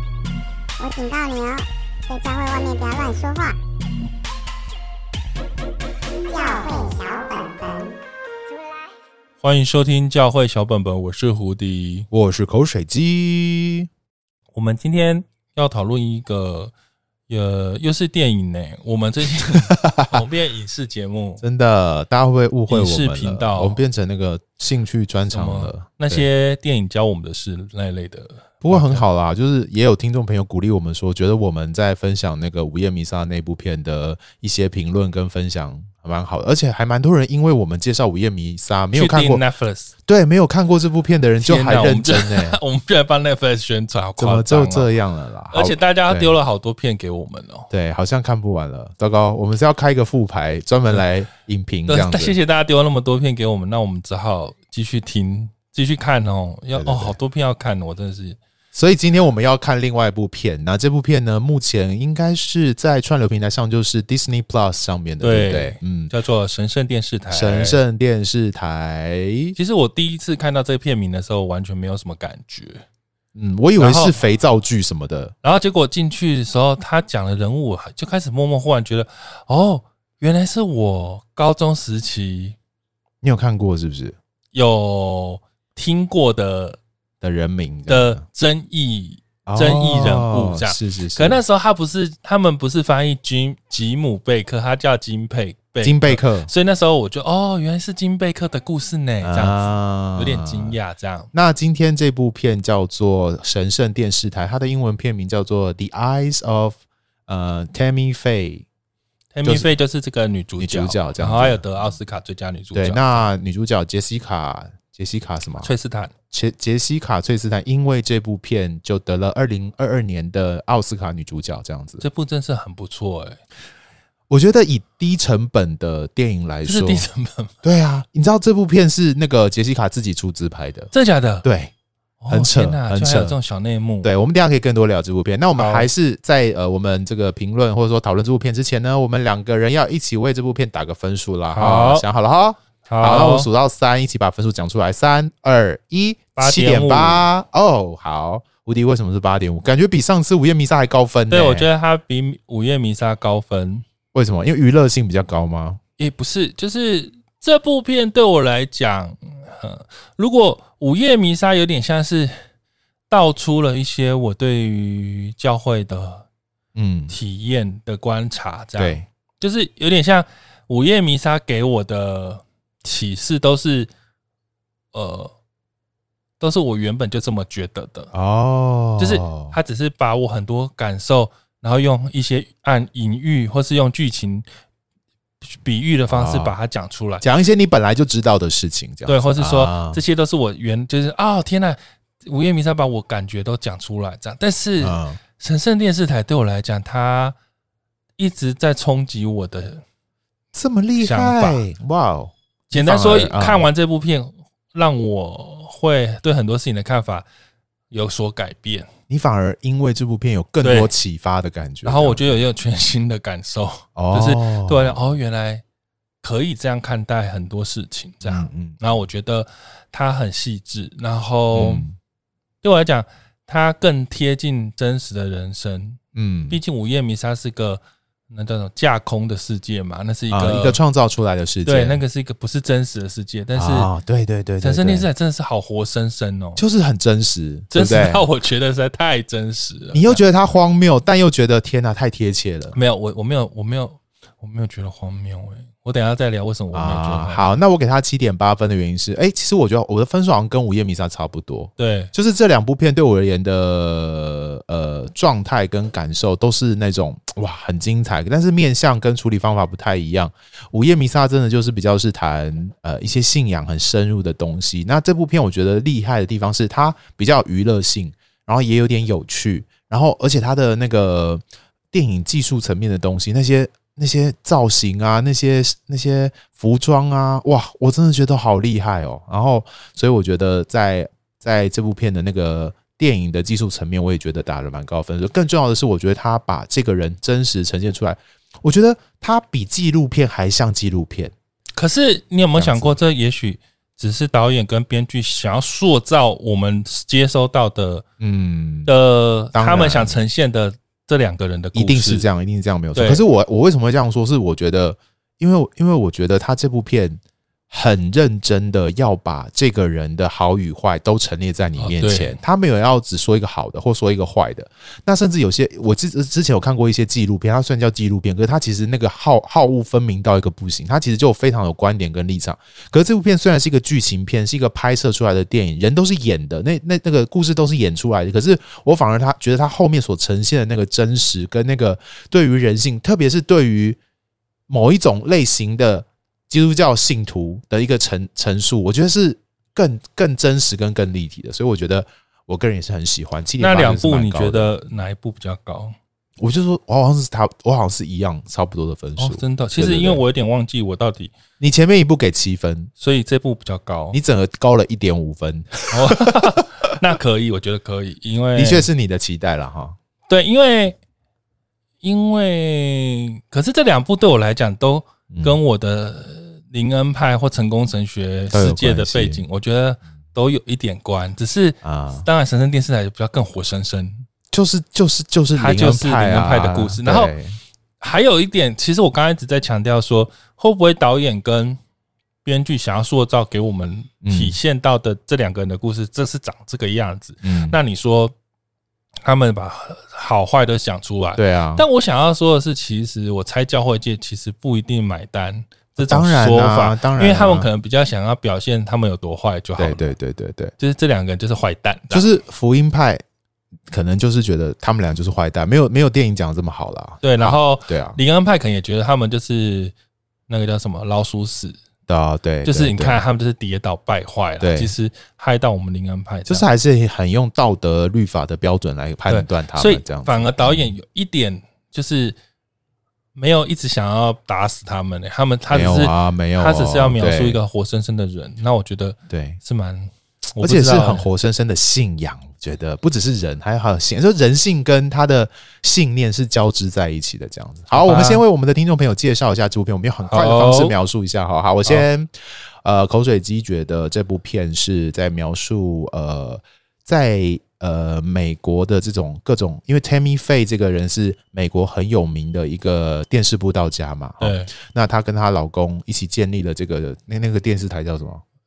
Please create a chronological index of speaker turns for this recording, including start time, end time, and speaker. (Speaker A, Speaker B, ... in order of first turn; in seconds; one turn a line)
Speaker A: 0.8-3.5
Speaker A: 6.3-7.9
Speaker B: 9.4-12.1
Speaker C: 12.1-13.9
Speaker B: 14.5-16.7
Speaker B: 17.3-21.4
Speaker C: 19.5-20.2
Speaker C: 21.4-26.2
Speaker B: 22.7-23.8
Speaker B: 25.3-29.1
Speaker C: 28.6-39.4
Speaker B: 38.9-39.9
Speaker C: 40.1-42.6
Speaker B: 41.4-44.9
Speaker C: 44.2-46.3
Speaker B: 45.5-47.7
Speaker C: 47.7-52.4
Speaker B: 51.9-58.4
Speaker C: 56.7-57.1
Speaker C: 58.7-66.1
Speaker B: 65.2-67.8
Speaker C: 67.3-69.5
Speaker B: 69.5-72.8
Speaker C: 73.3-75.3
Speaker B: 73.8-74.2
Speaker B: 75.4-82.5
Speaker C: 83.2-84.2
Speaker B: 84.5-86.8
Speaker C: 87.2-88.2
Speaker B: 87.9-99.6
Speaker C: 89.5-91.4
Speaker C: 95.8-96.5
Speaker C: 99.2-100.8
Speaker B: 100.1-101.3
Speaker C: 101.3-106.8
Speaker C: 107.3-108.7
Speaker B: 109.3-113.2
Speaker C: 110.6-111.8
Speaker C: 112.7-115.7
Speaker B: 115.6-116.1
Speaker C: 116.3-122.0
Speaker B: 122.0-123.4
Speaker C: 124.3-127.0
Speaker B: 126.6-127.5
Speaker C: 127.6-130.9
Speaker B: 130.9-131.4
Speaker C: 131.4-131.7
Speaker B: 132.2-134.1
Speaker C: 132.3-133.3
Speaker C: 134.0-151.7
Speaker B: 135.5-135.9
Speaker B: 141.5-142.0
Speaker B: 142.9-143.5
Speaker B: 146.3-147.3
Speaker B: 151.3-153.8
Speaker C: 154.1-155.8
Speaker B: 156.0-162.4
Speaker B: 163.1-166.3
Speaker C: 166.7-167.2
Speaker B: 167.1-173.9
Speaker C: 168.8-169.0
Speaker B: 174.9-175.3
Speaker B: 176.4-178.1
Speaker C: 178.1-179.6
Speaker B: 179.0-184.4
Speaker B: 185.4-187.2
Speaker C: 186.1-186.5
Speaker C: 187.2-190.0
Speaker B: 189.1-197.3
Speaker C: 194.8-195.2
Speaker B: 198.2-199.8
Speaker C: 200.5-203.7
Speaker B: 201.0-201.6
Speaker B: 202.7-207.2
Speaker B: 207.9-208.9
Speaker C: 209.1-212.2
Speaker B: 210.6-210.9
Speaker B: 211.8-215.6
Speaker C: 213.9-215.0
Speaker B: 216.2-221.9
Speaker C: 218.2-218.9
Speaker C: 221.5-221.9
Speaker B: 222.6-230.8
Speaker C: 226.1-226.6
Speaker C: 230.3-232.0
Speaker B: 231.7-233.9
Speaker C: 233.6-235.1
Speaker B: 234.6-236.6
Speaker C: 236.6-238.2
Speaker B: 237.7-240.2
Speaker C: 239.9-242.8
Speaker B: 242.7-247.4
Speaker C: 246.7-291.3
Speaker B: 251.8-252.1
Speaker B: 291.8-298.0
Speaker C: 292.6-293.0
Speaker C: 298.2-298.9
Speaker B: 298.9-302.3
Speaker C: 299.5-300.2
Speaker C: 301.7-334.0
Speaker B: 302.9-303.2
Speaker B: 311.8-312.3
Speaker C: 334.7-344.7
Speaker B: 343.6-345.9
Speaker C: 346.4-350.2
Speaker B: 349.2-351.3
Speaker C: 351.6-352.9
Speaker B: 353.0-354.2
Speaker C: 354.1-356.9
Speaker B: 355.9-358.9
Speaker C: 358.6-359.9
Speaker B: 360.3-361.0
Speaker B: 362.0-374.2
Speaker C: 365.3-365.6
Speaker C: 368.5-369.4
Speaker C: 371.8-372.3
Speaker C: 374.5-377.6
Speaker B: 375.6-377.3
Speaker B: 378.0-381.8
Speaker B: 382.4-388.3
Speaker C: 384.2-384.6
Speaker C: 387.4-387.8
Speaker B: 389.2-400.1
Speaker C: 391.4-391.8
Speaker C: 396.0-397.7
Speaker C: 399.8-400.7
Speaker B: 400.8-402.3
Speaker C: 402.1-403.2
Speaker C: 403.9-408.2
Speaker B: 407.2-409.9
Speaker B: 410.5-411.8
Speaker C: 412.1-413.2
Speaker B: 412.6-416.6
Speaker C: 414.6-414.9
Speaker C: 416.5-420.9
Speaker B: 419.3-422.4
Speaker B: 423.3-431.3
Speaker C: 425.7-427.6
Speaker C: 429.3-429.6
Speaker C: 430.6-442.3
Speaker B: 437.9-438.4
Speaker B: 440.3-440.9
Speaker C: 442.8-458.4
Speaker B: 454.4-454.7